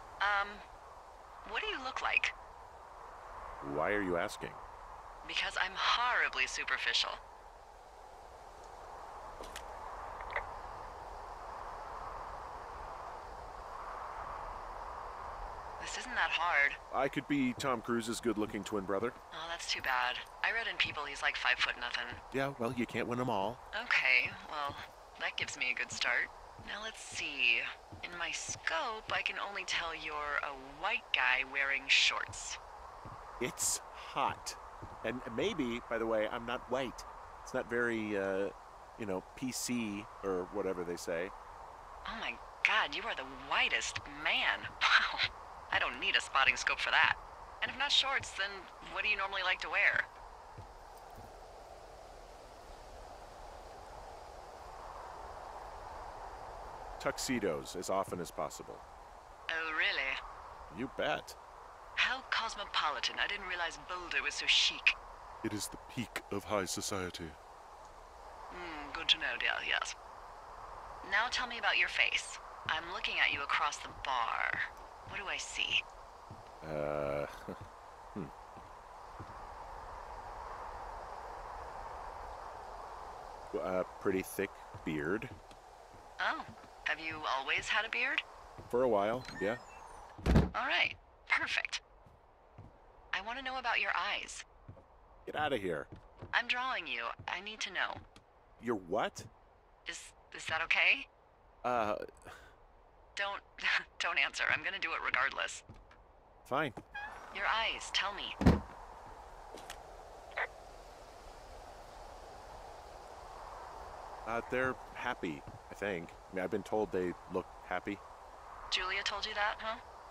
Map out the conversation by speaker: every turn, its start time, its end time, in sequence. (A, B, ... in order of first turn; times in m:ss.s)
0:00.2-0:00.7 A
0:01.4-0:02.4 A
0:03.6-0:04.6 B
0:05.2-0:07.2 A
0:15.8-0:16.8 A
0:16.9-0:19.2 B
0:19.3-0:22.2 A
0:22.3-0:23.6 B
0:23.7-0:32.6 A
0:33.4-0:41.3 B
0:42.1-0:50.1 A
0:57.0-0:58.8 B
0:59.5-1:00.2 A
1:00.7-1:01.4 B
1:02.0-1:05.0 A
1:05.4-1:07.4 B
1:08.5-1:10.0 A
1:11.0-1:15.8 A
1:16.6-1:17.6 B
1:23.5-1:25.4 B
1:26.2-1:28.2 A
1:28.7-1:29.6 B
1:30.5-1:31.8 A
1:33.1-1:34.4 A
1:35.3-1:35.9 B
1:36.3-1:38.0 A
1:38.6-1:39.3 B
1:39.9-1:41.1 A
1:41.6-1:42.5 B
1:43.2-1:45.6 A
1:46.5-1:46.8 B
1:47.3-1:48.4 A
1:54.3-1:58.0 B
1:58.7-1:59.8 A